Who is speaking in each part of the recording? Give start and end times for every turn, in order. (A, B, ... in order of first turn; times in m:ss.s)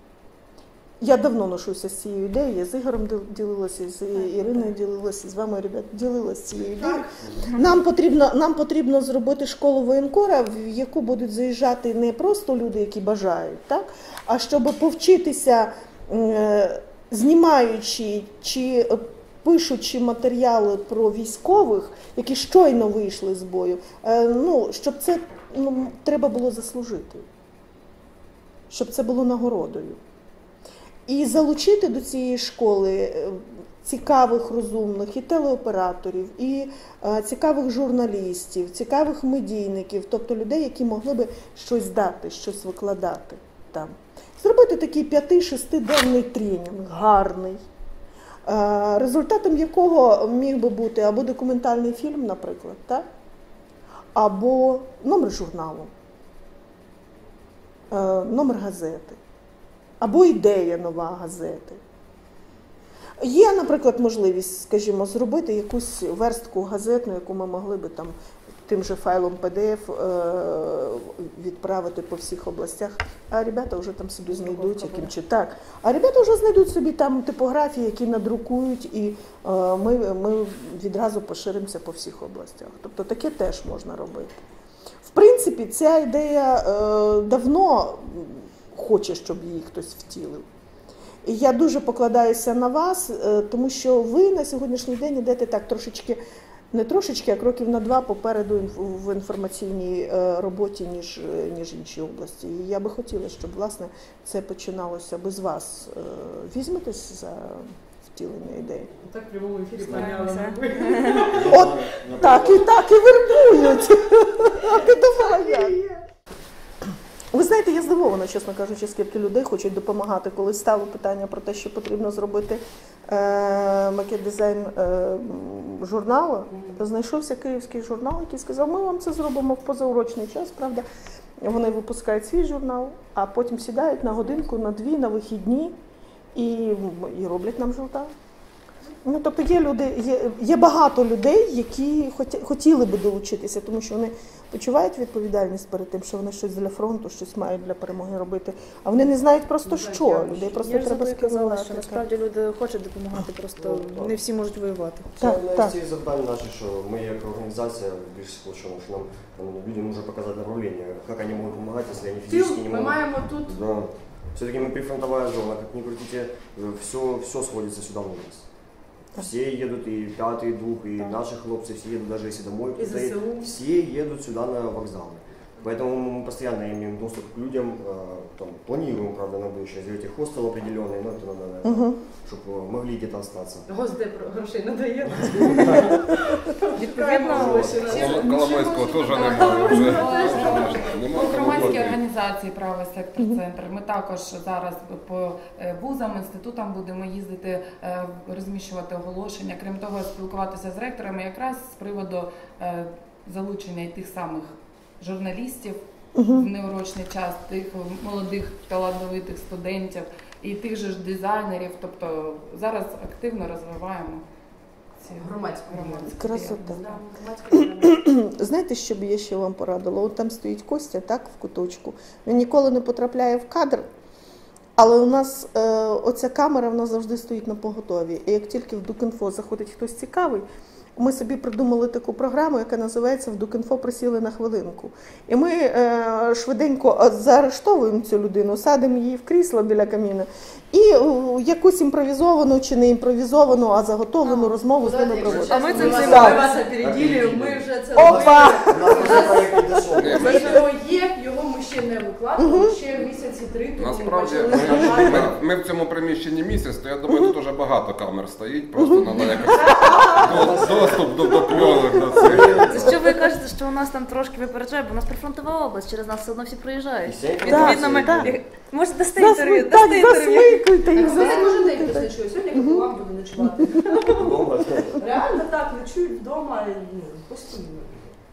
0:01.0-0:27.2 A
0:04.2-0:04.5 B
0:06.6-0:07.0 B
0:28.7-0:30.0 A
0:31.1-0:47.6 A
0:48.4-0:53.0 A
0:54.1-0:55.9 A
0:57.9-0:59.2 A
1:00.0-1:01.8 A
1:03.2-1:08.1 A
1:08.6-1:24.4 A
1:14.3-1:15.1 C
1:25.0-1:30.4 A
1:31.2-1:36.2 A
1:36.7-1:48.9 A
1:49.0-1:51.5 B
1:49.9-1:51.2 C
1:51.3-1:52.6 D
1:51.4-1:55.8 A
1:55.1-1:56.0 B
1:57.3-2:10.8 A
2:06.5-2:06.8 B
2:11.4-2:15.8 A
2:16.3-2:18.1 A
2:19.0-2:32.0 A
2:29.6-2:30.6 B
2:30.5-2:35.1 C
2:33.6-2:34.1 D
2:35.2-2:48.4 D
2:35.2-2:35.8 A
2:42.3-2:43.6 B
2:49.1-3:03.7 D
2:52.8-2:53.5 B
3:01.6-3:02.0 A
3:03.7-3:11.8 B
3:06.8-3:08.1 C
3:07.3-3:07.7 D
3:07.9-3:12.0 E
3:09.2-3:34.2 F
3:26.1-3:26.4 A
3:35.0-3:37.0 F
3:35.2-3:38.0 B
3:36.2-3:36.8 A
3:37.9-3:43.8 A
3:44.8-3:50.4 A
3:51.0-4:06.4 A
4:04.8-4:15.4 B
4:05.3-4:06.4 C
4:06.7-4:10.2 D
4:08.0-4:08.6 A
4:10.0-4:10.5 E
4:13.8-4:22.8 E
4:14.5-4:15.3 D
4:19.6-4:20.5 B
4:20.2-4:23.0 D
4:22.7-4:30.6 C
4:27.0-4:28.4 D
4:27.4-4:28.3 A
4:29.2-4:32.8 A
4:30.9-4:34.2 B
4:34.2-4:34.9 D
4:34.9-4:38.2 B